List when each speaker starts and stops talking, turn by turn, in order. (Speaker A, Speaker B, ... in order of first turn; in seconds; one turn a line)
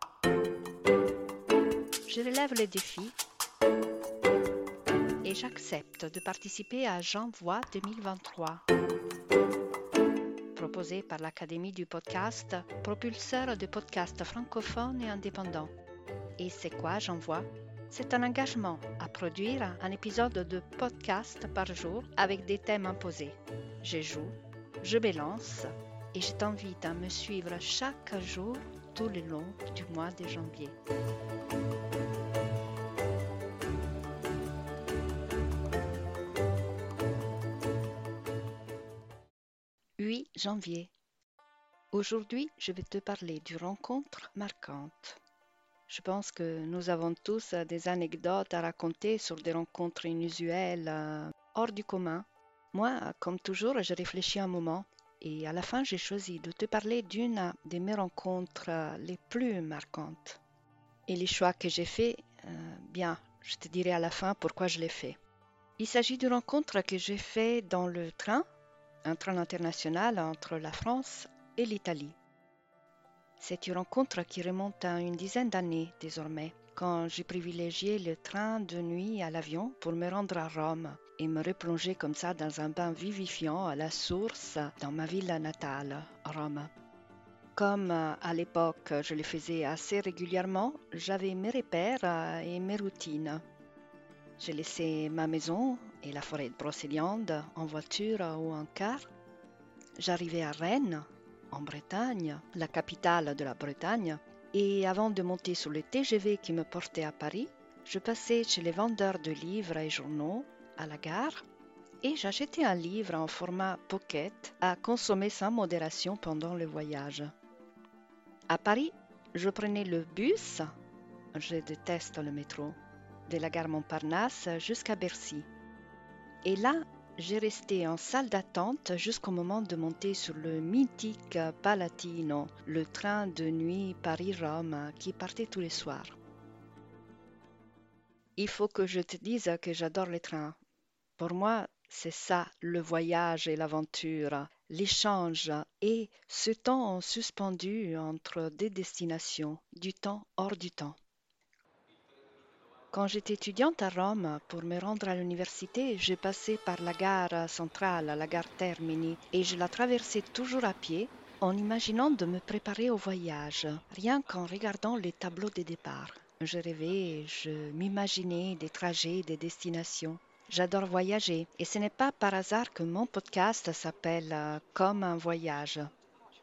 Speaker A: 2.1-3.2
Speaker A: 5.2-8.6
Speaker A: 10.6-15.8
Speaker A: 16.4-30.8
Speaker A: 40.0-40.9
Speaker A: 41.9-45.2
Speaker A: 45.9-60.4
Speaker A: 61.1-65.2
Speaker A: 65.8-68.5
Speaker A: 69.0-72.2
Speaker A: 73.4-86.7
Speaker A: 87.5-93.4
Speaker A: 94.4-99.1
Speaker A: 100.0-111.4
Speaker A: 112.0-117.3
Speaker A: 118.5-120.8
Speaker A: 121.3-125.5
Speaker A: 126.4-136.2
Speaker A: 138.4-140.6
Speaker A: 141.2-151.0
Speaker A: 152.9-175.9